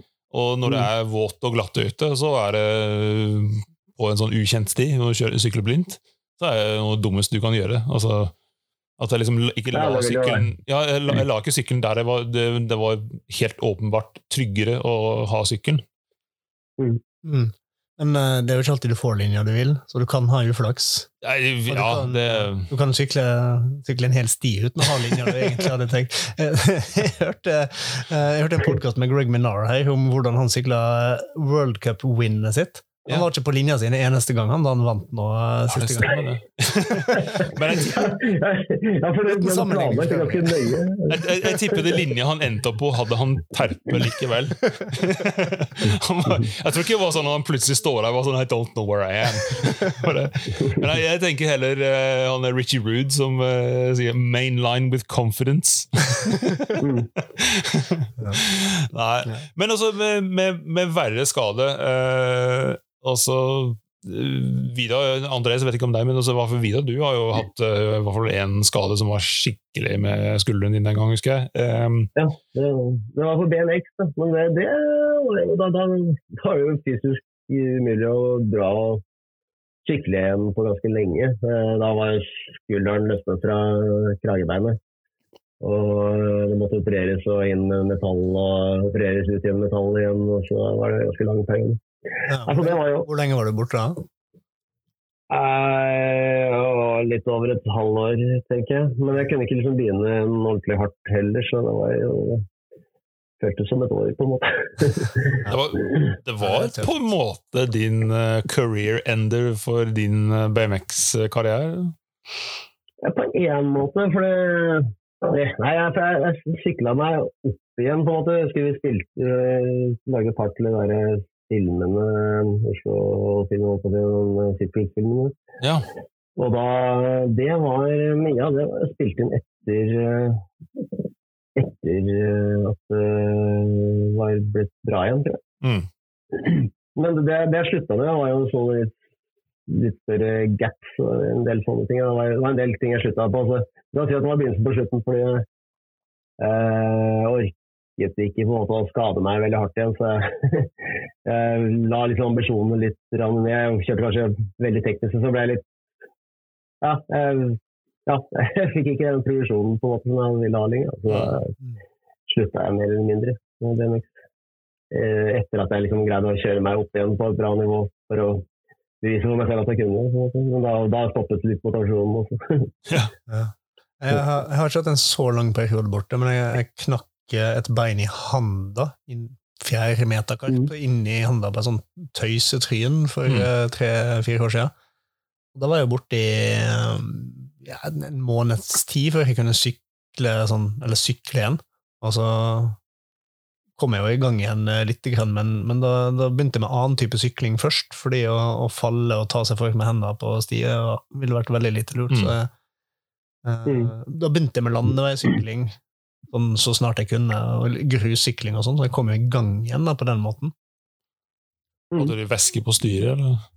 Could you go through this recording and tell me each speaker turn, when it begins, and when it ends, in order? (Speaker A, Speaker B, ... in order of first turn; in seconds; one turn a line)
Speaker A: 0.3-8.3
Speaker A: 9.0-15.8
Speaker B: 9.7-10.4
Speaker C: 17.2-21.1
Speaker A: 21.2-22.7
Speaker C: 21.7-36.1
Speaker A: 35.7-38.2
Speaker B: 37.4-42.0
Speaker C: 39.3-40.8
Speaker A: 41.1-56.4
Speaker B: 56.8-57.1
Speaker A: 57.2-72.1
Speaker B: 72.2-79.0
Speaker B: 79.8-84.8
Speaker B: 85.6-91.8
Speaker C: 92.3-94.0
Speaker B: 92.4-93.1
Speaker B: 95.3-102.5
Speaker B: 103.4-105.5
Speaker A: 105.5-112.0
Speaker C: 106.4-106.9
Speaker B: 113.0-125.3
Speaker A: 125.6-125.9
Speaker B: 126.4-130.4
Speaker B: 131.6-135.4
Speaker A: 135.6-135.9
Speaker B: 136.3-138.9
Speaker B: 139.7-145.4
Speaker B: 146.4-150.7
Speaker B: 151.2-155.6
Speaker B: 156.8-161.6
Speaker A: 161.1-161.3
Speaker B: 162.3-164.1
Speaker B: 164.9-168.4
Speaker B: 169.0-172.7
Speaker C: 173.3-184.7
Speaker C: 185.5-192.8
Speaker C: 193.8-202.5
Speaker A: 202.1-202.3
Speaker C: 203.4-205.8
Speaker B: 203.7-203.9
Speaker C: 206.3-210.5
Speaker A: 211.9-213.4